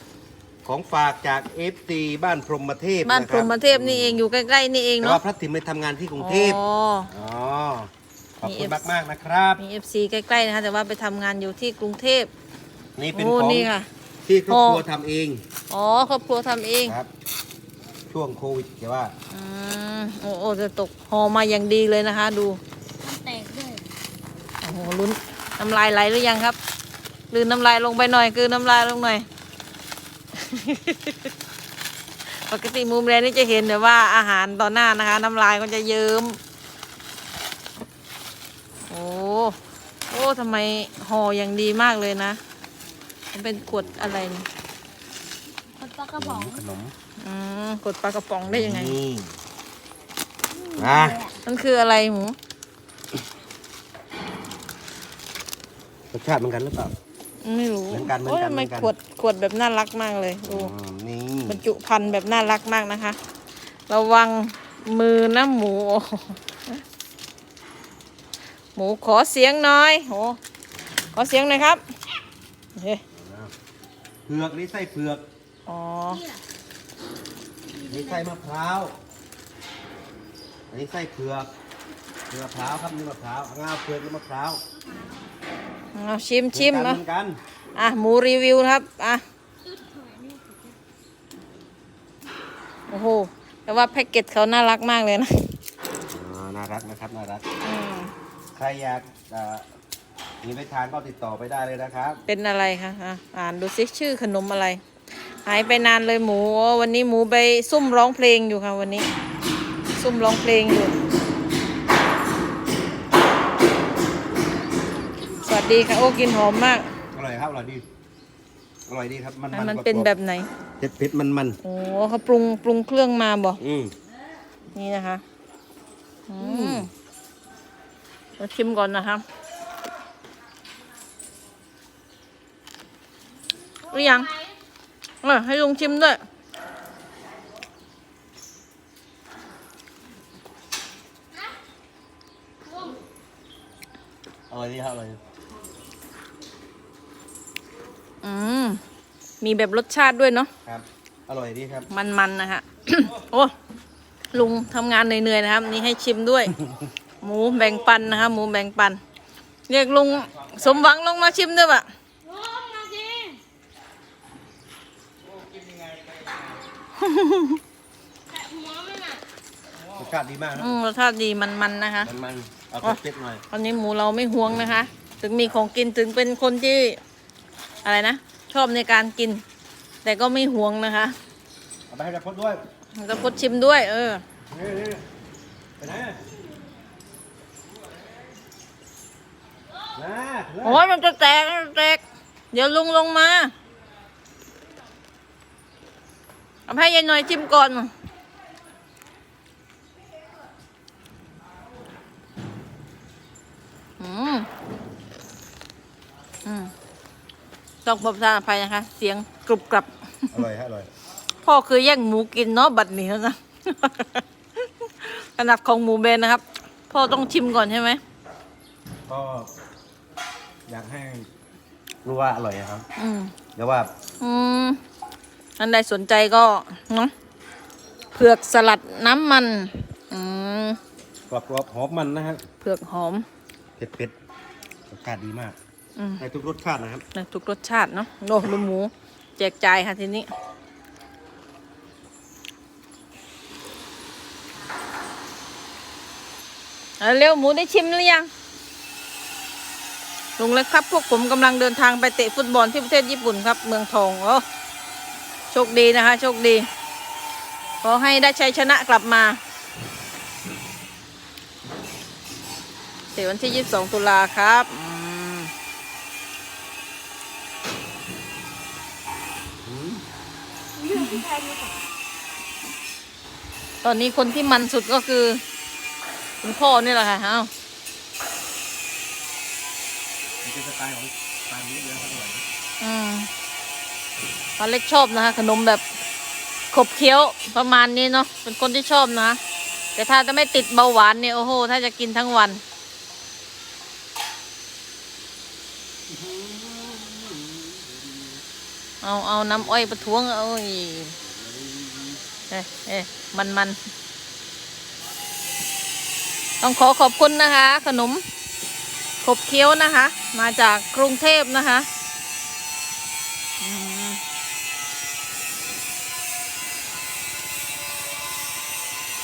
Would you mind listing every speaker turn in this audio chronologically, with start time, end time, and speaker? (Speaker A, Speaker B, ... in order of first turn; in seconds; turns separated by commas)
Speaker A: 0.6-4.2, Speaker B: 3.0-5.2, Speaker A: 5.0-9.6, Speaker B: 6.2-7.1, Speaker B: 8.4-8.8, Speaker B: 9.6-12.3, Speaker A: 13.0-13.7, Speaker B: 13.1-13.9, Speaker A: 14.2-15.4, Speaker B: 14.5-14.8, Speaker B: 15.7-16.9, Speaker A: 18.1-19.1, Speaker B: 19.3-22.6, Speaker C: 23.0-23.9, Speaker B: 24.6-26.6, Speaker B: 27.3-29.2, Speaker B: 30.3-31.3, Speaker B: 32.3-36.4, Speaker B: 38.9-39.6, Speaker B: 40.1-42.4, Speaker B: 43.3-44.5, Speaker A: 43.7-44.0, Speaker C: 45.8-46.6, Speaker A: 46.2-46.9, Speaker B: 47.2-49.0, Speaker A: 48.4-49.3, Speaker C: 50.5-51.4, Speaker A: 50.8-51.2, Speaker B: 51.4-52.4, Speaker A: 56.1-56.9, Speaker B: 57.4-60.7, Speaker A: 57.9-58.9, Speaker A: 60.4-61.6, Speaker B: 61.5-63.2, Speaker B: 63.9-66.8, Speaker B: 68.8-70.4, Speaker B: 71.1-71.8, Speaker B: 72.8-73.0, Speaker A: 73.1-73.5, Speaker A: 74.2-75.3, Speaker B: 75.7-76.2, Speaker C: 76.1-76.4, Speaker C: 77.7-78.3, Speaker A: 77.9-78.9, Speaker A: 80.7-81.5, Speaker A: 82.3-84.6, Speaker C: 84.8-85.3, Speaker B: 85.9-87.0, Speaker A: 86.5-87.4, Speaker B: 87.8-89.2, Speaker C: 89.6-90.7, Speaker B: 92.9-95.6, Speaker A: 96.1-97.4, Speaker B: 97.6-98.1, Speaker A: 98.5-99.7, Speaker A: 100.4-102.2, Speaker B: 102.3-104.8, Speaker B: 105.4-109.1, Speaker B: 110.0-110.9, Speaker B: 115.4-116.9, Speaker A: 117.1-117.8, Speaker A: 118.9-120.1, Speaker B: 119.5-120.5, Speaker A: 120.8-121.6, Speaker B: 121.6-123.6, Speaker A: 123.6-123.9, Speaker B: 124.7-125.2, Speaker B: 126.3-126.9, Speaker A: 126.4-126.9, Speaker B: 128.4-129.2, Speaker C: 133.8-134.6, Speaker B: 133.9-134.3, Speaker B: 135.2-136.2, Speaker C: 142.6-143.0, Speaker A: 144.5-145.2, Speaker B: 148.2-148.8, Speaker B: 149.4-150.5, Speaker A: 150.6-151.9, Speaker B: 151.9-153.5, Speaker B: 154.3-156.5, Speaker B: 157.2-159.0, Speaker A: 157.6-157.9, Speaker B: 159.7-161.9, Speaker A: 160.2-160.9, Speaker C: 162.2-163.4, Speaker A: 165.2-166.6, Speaker B: 167.0-167.6, Speaker C: 168.3-169.2, Speaker A: 169.9-170.8, Speaker B: 170.6-172.1, Speaker A: 172.0-173.4, Speaker B: 173.5-177.0, Speaker B: 177.8-179.4, Speaker B: 180.0-181.2, Speaker A: 181.9-182.6, Speaker B: 182.9-184.2, Speaker A: 184.5-185.0, Speaker A: 185.8-186.2, Speaker A: 189.9-190.8, Speaker B: 190.6-193.5, Speaker B: 196.7-197.9, Speaker B: 204.0-204.5, Speaker B: 206.4-206.7, Speaker B: 207.8-210.4, Speaker A: 210.3-210.9, Speaker B: 211.4-218.0, Speaker A: 219.1-219.5, Speaker A: 220.7-221.3, Speaker A: 222.0-222.9, Speaker B: 222.9-223.3, Speaker A: 223.5-223.9, Speaker B: 224.2-224.8, Speaker B: 225.6-227.1, Speaker B: 228.1-230.8, Speaker A: 231.3-232.4, Speaker B: 232.6-233.2, Speaker A: 233.8-234.1, Speaker A: 234.9-235.6, Speaker B: 236.0-236.2, Speaker A: 236.2-237.0, Speaker B: 237.1-240.3, Speaker B: 247.0-248.3, Speaker B: 250.4-254.4, Speaker B: 255.5-256.7, Speaker B: 257.8-259.4, Speaker B: 263.1-265.5, Speaker A: 269.6-270.0, Speaker C: 270.8-271.7, Speaker B: 273.8-275.4, Speaker B: 276.4-277.5, Speaker A: 280.4-282.4, Speaker B: 282.8-283.3, Speaker B: 284.6-285.8, Speaker B: 286.7-289.4, Speaker B: 289.9-292.6, Speaker A: 296.1-298.3, Speaker B: 299.0-301.1, Speaker A: 299.5-300.0, Speaker A: 301.2-302.2, Speaker B: 302.5-303.8, Speaker B: 306.6-308.2, Speaker B: 309.2-311.9, Speaker B: 313.6-314.2